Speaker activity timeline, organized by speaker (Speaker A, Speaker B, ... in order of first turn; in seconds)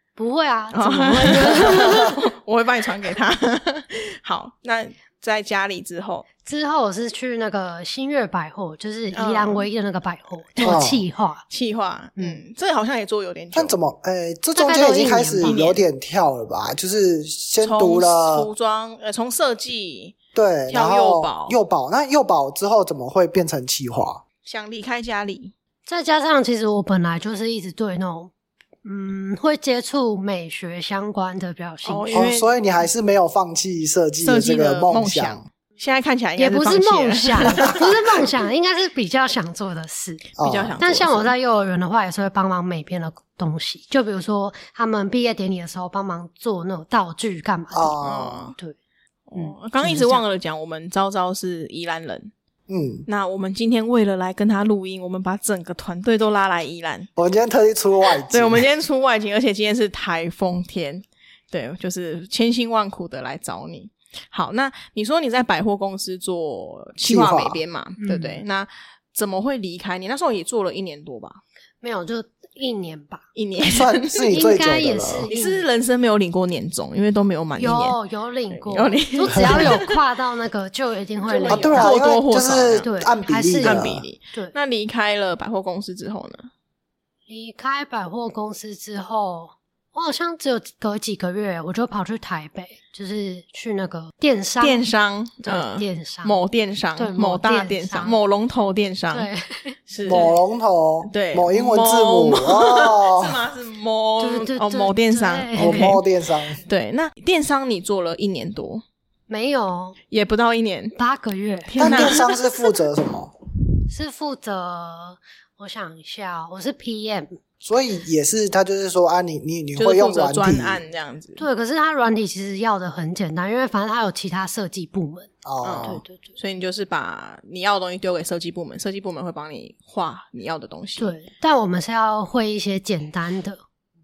Speaker A: 0.1-2.2, 6.4-11.4, 14.5-15.6, 25.9-28.3, 28.8-32.3, 36.4-48.0, 49.3-50.2, 68.0-68.4, 71.8-73.2, 74.3-75.7, 77.6-82.0, 82.8-84.5, 87.3-94.9, 95.4-96.4, 97.0-98.2, 99.1-100.4, 104.2-106.0, 109.3-110.0, 110.9-112.3, 113.9-117.4, 121.4-125.3, 125.8-126.3, 131.0-133.6
Speaker B: 0.7-6.3, 9.1-9.7, 10.6-10.8, 11.5-13.7, 15.4-15.8, 17.6-20.1, 20.7-21.6, 24.4-25.5, 31.8-32.5, 34.2-38.2, 40.4-41.3, 48.0-48.5, 49.3-52.3, 53.1-57.1, 58.2-71.4, 73.3-74.2, 75.3-78.0, 78.5-80.0, 81.3-82.9, 83.6-86.5, 94.6-99.3, 99.9-100.3, 101.1-106.0, 106.6-108.8, 110.1-111.0, 111.7-112.4, 119.8-121.4, 125.6-131.1
Speaker C: 10.6-11.0, 13.5-18.5, 20.3-24.2, 32.1-35.4, 40.4-40.8, 47.7-48.5, 52.7-53.1, 57.2-58.6, 67.0-67.6, 73.6-75.3, 79.3-79.8, 81.5-84.0, 100.0-103.4, 105.5-106.6, 111.8-113.3, 117.6-120.8, 125.4-126.0